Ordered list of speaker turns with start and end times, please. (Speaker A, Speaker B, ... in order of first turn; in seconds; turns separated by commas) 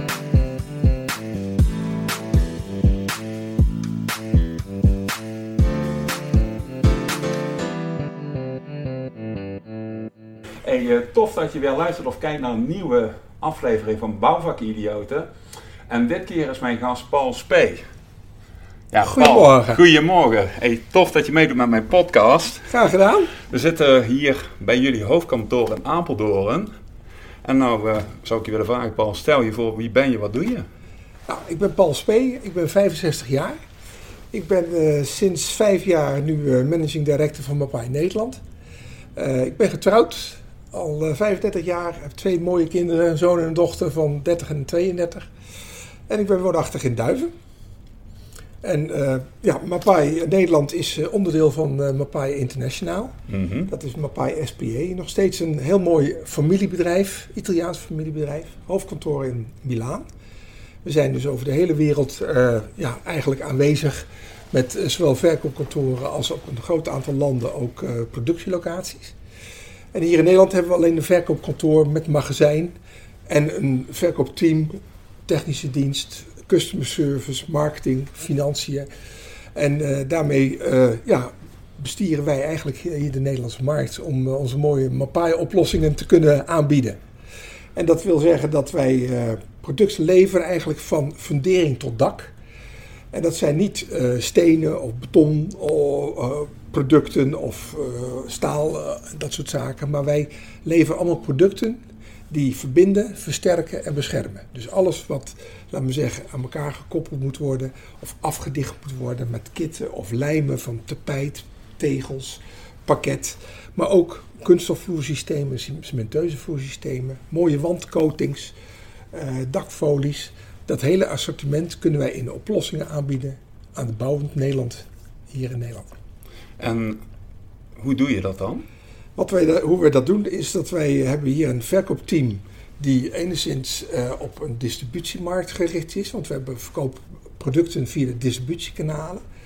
Speaker A: 10.6-15.3, Speaker A: 15.9-17.8, Speaker A: 18.9-22.7, Speaker B: 19.0-19.8, Speaker B: 22.7-23.3, Speaker A: 23.4-26.7, Speaker A: 27.4-30.7, Speaker B: 31.3-33.6, Speaker B: 34.3-38.4, Speaker B: 39.2-45.3, Speaker B: 46.1-47.3, Speaker B: 48.6-53.1, Speaker A: 53.3-53.7, Speaker B: 53.7-60.0, Speaker B: 60.9-69.2, Speaker B: 69.9-72.7, Speaker B: 73.3-78.9, Speaker B: 79.5-87.0, Speaker B: 87.8-92.3, Speaker B: 93.1-118.5, Speaker B: 119.1-126.0, Speaker A: 126.6-127.0, Speaker A: 127.8-128.7, Speaker B: 129.2-139.2